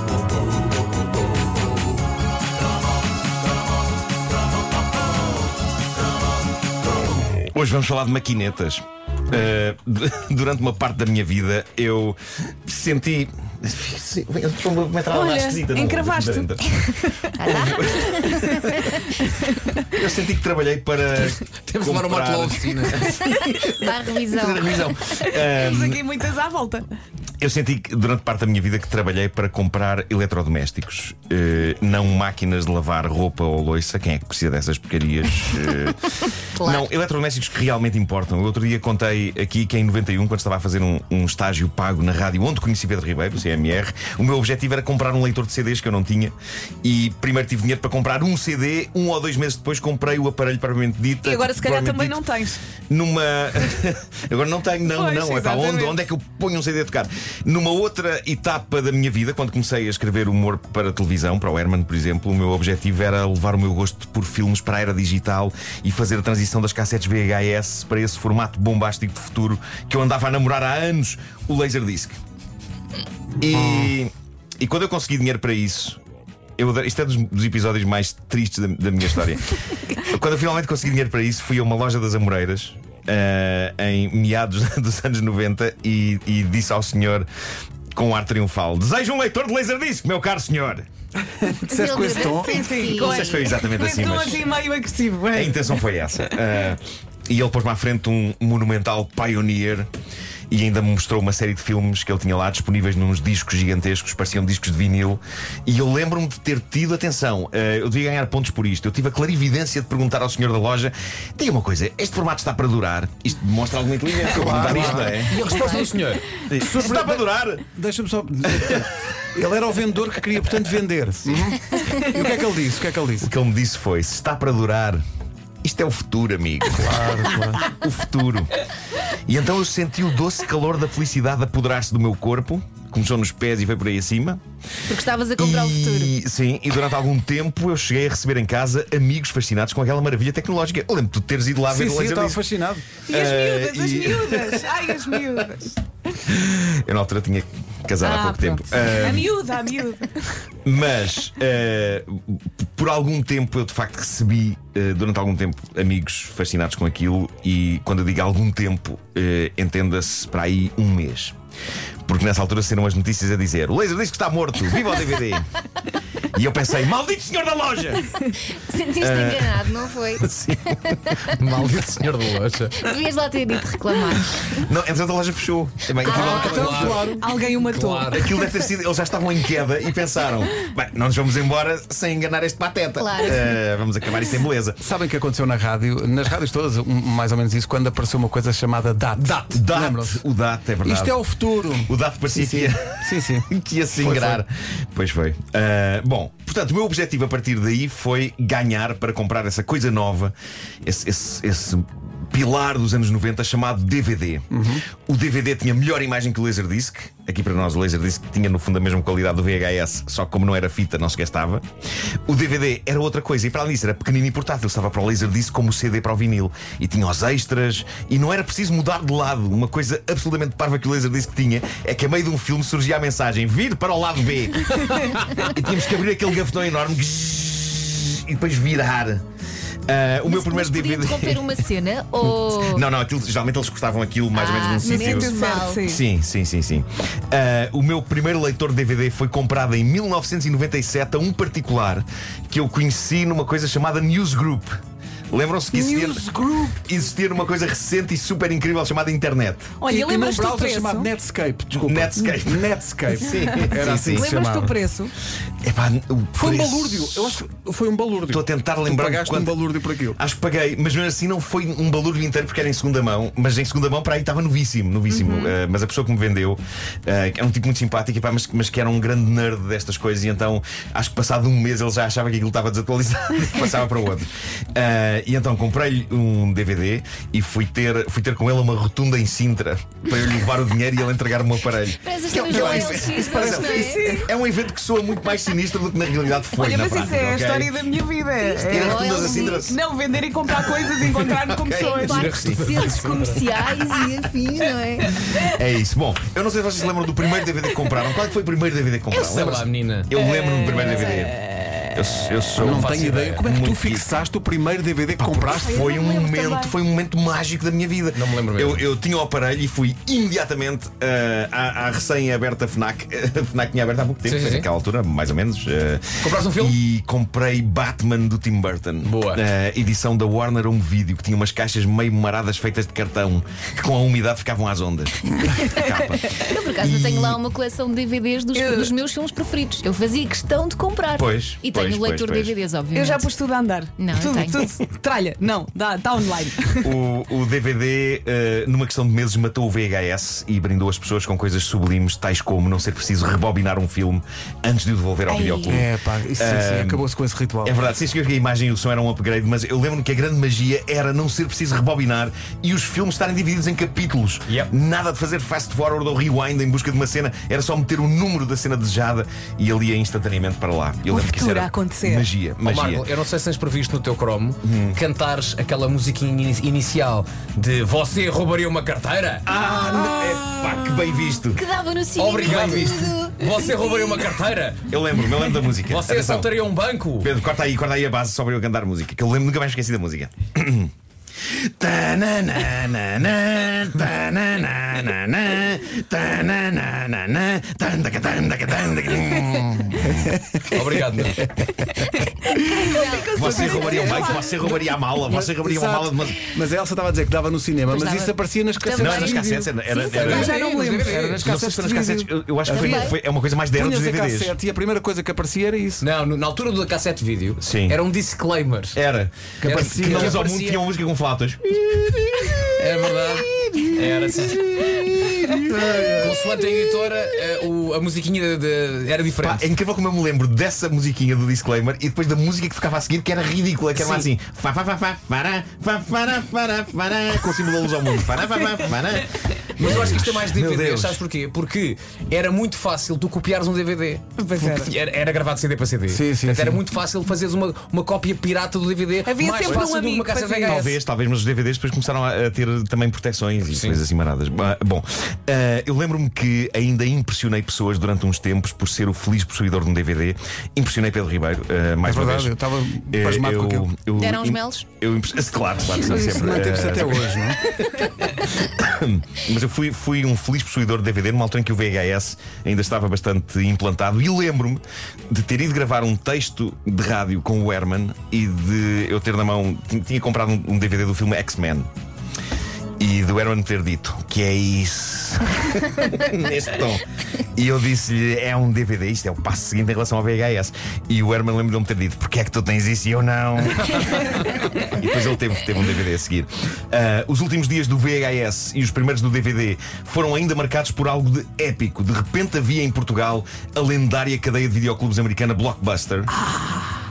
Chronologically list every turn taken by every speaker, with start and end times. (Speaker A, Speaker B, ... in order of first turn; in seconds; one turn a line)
Speaker A: 7.5-16.9
Speaker B: 15.1-17.4
Speaker C: 17.4-19.0
Speaker A: 17.4-18.7
Speaker A: 19.9-23.2
Speaker D: 21.1-23.4
Speaker C: 23.6-25.2
Speaker A: 24.3-26.0
Speaker B: 25.2-26.9
Speaker A: 27.4-52.2
Speaker B: 51.2-52.6
Speaker A: 52.9-72.2
Speaker B: 54.9-56.0
Speaker A: 73.4-76.0
Speaker E: 73.6-73.9
Speaker A: 76.6-87.3
Speaker A: 87.9-90.8
Speaker E: 91.3-92.6
Speaker C: 91.7-93.4
Speaker B: 92.1-95.7
Speaker A: 92.8-94.5
Speaker A: 95.3-99.9
Speaker A: 100.5-115.5
Speaker E: 114.2-115.2
Speaker D: 114.5-116.3
Speaker A: 116.5-117.6
Speaker E: 116.6-123.3
Speaker A: 118.5-118.9
Speaker A: 123.2-125.0
Speaker A: 125.6-126.9
Speaker E: 126.7-127.7
Speaker A: 127.6-128.5
Speaker A: 129.3-134.4
Speaker C: 134.9-136.1
Speaker A: 135.4-142.4
Speaker E: 141.7-142.9
Speaker B: 143.1-145.8
Speaker A: 143.1-145.2
Speaker A: 146.2-149.3
Speaker B: 148.0-150.2
Speaker A: 150.6-161.3
Speaker A: 162.1-165.5
Speaker A: 166.3-168.2
Speaker C: 168.4-171.4
Speaker A: 169.0-169.6
Speaker A: 170.2-171.2
Speaker D: 171.3-172.8
Speaker C: 172.8-174.6
Speaker A: 174.5-177.1
Speaker C: 176.0-176.8
Speaker E: 176.1-177.2
Speaker D: 176.1-178.2
Speaker B: 177.0-178.2
Speaker A: 178.1-184.8
Speaker C: 183.0-183.4
Speaker E: 184.8-190.2
Speaker A: 189.2-191.2
Speaker E: 190.8-193.5
Speaker A: 191.9-204.5
Speaker E: 194.0-194.4
Speaker E: 204.5-204.8
Speaker A: 205.1-211.6
Speaker A: 212.3-229.2
Speaker A: 229.9-231.5
Speaker C: 230.2-232.8
Speaker A: 232.2-244.8
Speaker C: 234.3-235.8
Speaker B: 234.8-236.0
Speaker A: 245.3-249.7
Speaker E: 245.7-246.6
Speaker B: 249.8-251.1
Speaker E: 249.8-254.8
Speaker A: 251.7-254.2
Speaker B: 254.1-255.1
Speaker A: 255.6-257.4
Speaker E: 256.4-260.2
Speaker A: 258.3-259.6
Speaker A: 260.1-287.7
Speaker B: 265.1-265.5
Speaker C: 282.0-284.2
Speaker E: 282.4-283.7
Speaker B: 283.2-284.3
Speaker B: 286.6-292.2
Speaker C: 288.3-289.7
Speaker A: 288.7-289.8
Speaker A: 290.5-293.0
Speaker C: 291.7-295.2
Speaker D: 291.9-293.4
Speaker A: 295.4-301.4
Speaker D: 299.1-300.9
Speaker C: 300.6-301.3
Speaker A: 301.9-304.1
Speaker D: 302.6-303.4
Speaker E: 302.6-305.8
Speaker A: 305.2-327.4
Speaker B: 305.5-306.8
Speaker D: 308.1-308.9
Speaker D: 314.2-314.7
Speaker D: 316.2-316.8
Speaker D: 319.0-319.4
Speaker C: 326.5-333.3
Speaker B: 328.5-328.9
Speaker A: 331.1-332.6
Speaker B: 332.9-337.0
Speaker C: 334.0-334.7
Speaker A: 336.8-347.0
Speaker B: 345.3-345.7
Speaker E: 345.7-347.8
Speaker A: 347.6-363.1
Speaker B: 361.1-362.3
Speaker D: 362.6-369.4
Speaker A: 364.6-365.0
Speaker A: 369.4-371.6
Speaker C: 371.5-374.2
Speaker D: 372.1-374.9
Speaker A: 372.4-372.9
Speaker A: 374.9-376.6
Speaker D: 375.8-377.3
Speaker A: 377.2-380.9
Speaker A: 381.4-390.3
Speaker E: 390.0-403.1
Speaker D: 390.7-391.4
Speaker B: 392.4-394.8
Speaker C: 392.7-393.9
Speaker A: 393.2-396.4
Speaker C: 397.9-400.5
Speaker A: 399.0-400.5
Speaker D: 400.1-401.4
Speaker B: 400.4-401.2
Speaker A: 401.4-404.6
Speaker C: 402.7-403.1
Speaker E: 403.7-406.1
Speaker D: 406.0-409.0
Speaker A: 407.6-408.0
Speaker A: 408.9-412.9
Speaker E: 409.6-410.4
Speaker D: 409.6-410.9
Speaker D: 412.7-415.0
Speaker A: 414.5-416.1
Speaker E: 415.3-416.4
Speaker D: 416.2-419.7
Speaker A: 419.4-431.2
Speaker D: 423.9-424.3
Speaker D: 429.8-441.0
Speaker B: 434.4-434.9
Speaker E: 436.1-436.8
Speaker B: 439.2-440.9
Speaker A: 440.6-452.6
Speaker D: 443.7-444.0
Speaker E: 452.0-453.9
Speaker A: 453.1-471.9
Speaker C: 454.2-454.9
Speaker E: 456.0-457.6
Speaker A: 473.0-477.0
Speaker A: 477.5-496.3
Speaker B: 496.4-497.0